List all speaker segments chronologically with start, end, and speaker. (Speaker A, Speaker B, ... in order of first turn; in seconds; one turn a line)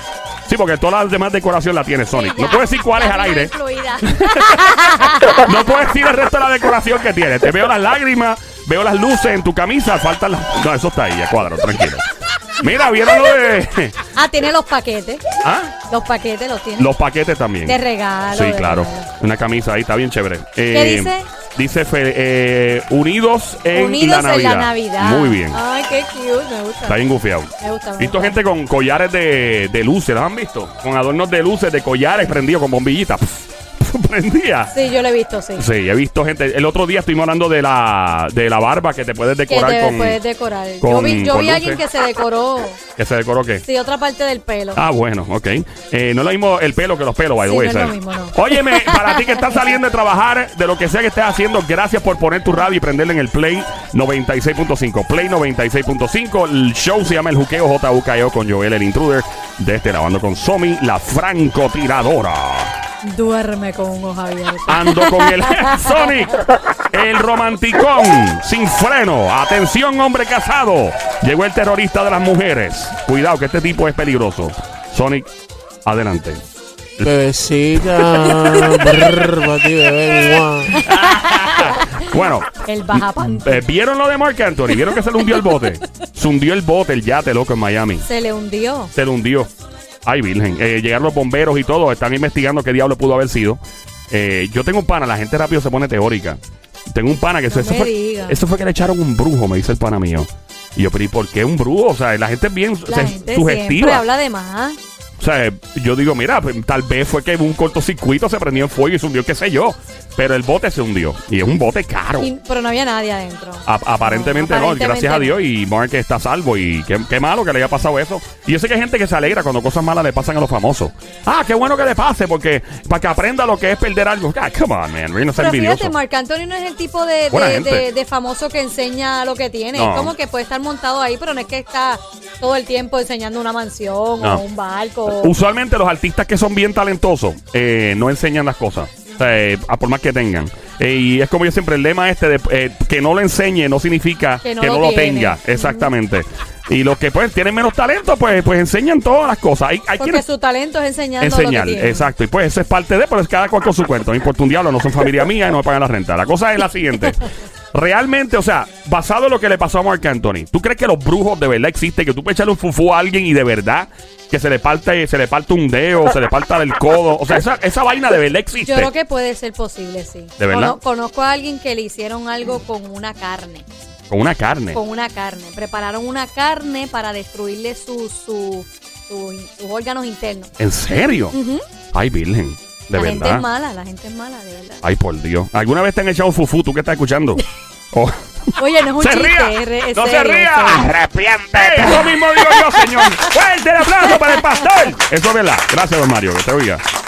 Speaker A: 0.5-3.5
Speaker B: 2.1-5.4
Speaker A: 4.1-4.7
Speaker A: 5.3-12.1
Speaker A: 12.6-14.0
Speaker B: 14.2-15.2
Speaker A: 15.4-15.7
Speaker B: 15.9-16.9
Speaker A: 16.8-17.8
Speaker B: 17.7-19.1
Speaker A: 18.3-25.6
Speaker B: 20.7-21.3
Speaker B: 23.7-27.0
Speaker A: 26.9-34.7
Speaker B: 27.6-28.4
Speaker B: 34.7-35.7
Speaker A: 35.6-40.2
Speaker B: 39.5-42.8
Speaker A: 40.8-41.8
Speaker A: 43.0-43.6
Speaker B: 43.6-44.8
Speaker A: 44.8-62.7
Speaker B: 47.4-49.4
Speaker B: 63.0-65.9
Speaker A: 64.7-75.3
Speaker A: 75.8-76.4
Speaker C: 77.0-80.7
Speaker A: 80.1-88.0
Speaker B: 80.7-82.0
Speaker B: 82.6-83.6
Speaker B: 85.3-85.6
Speaker B: 88.0-88.9
Speaker A: 89.0-89.5
Speaker A: 90.1-104.0
Speaker B: 97.5-98.4
Speaker B: 102.9-104.8
Speaker A: 105.2-112.3
Speaker B: 112.2-115.4
Speaker A: 113.7-125.9
Speaker B: 125.4-135.3
Speaker A: 127.3-127.9
Speaker A: 129.8-130.1
Speaker A: 135.1-150.2
Speaker B: 144.4-145.9
Speaker B: 150.0-152.1
Speaker A: 151.2-168.9
Speaker B: 168.6-173.7
Speaker A: 170.4-170.8
Speaker A: 174.1-174.8
Speaker B: 174.7-180.5
Speaker A: 180.6-181.4
Speaker B: 181.3-181.6
Speaker A: 181.9-183.4
Speaker B: 182.9-184.8
Speaker A: 184.8-187.4
Speaker B: 188.6-190.9
Speaker A: 189.0-196.8
Speaker B: 191.9-192.8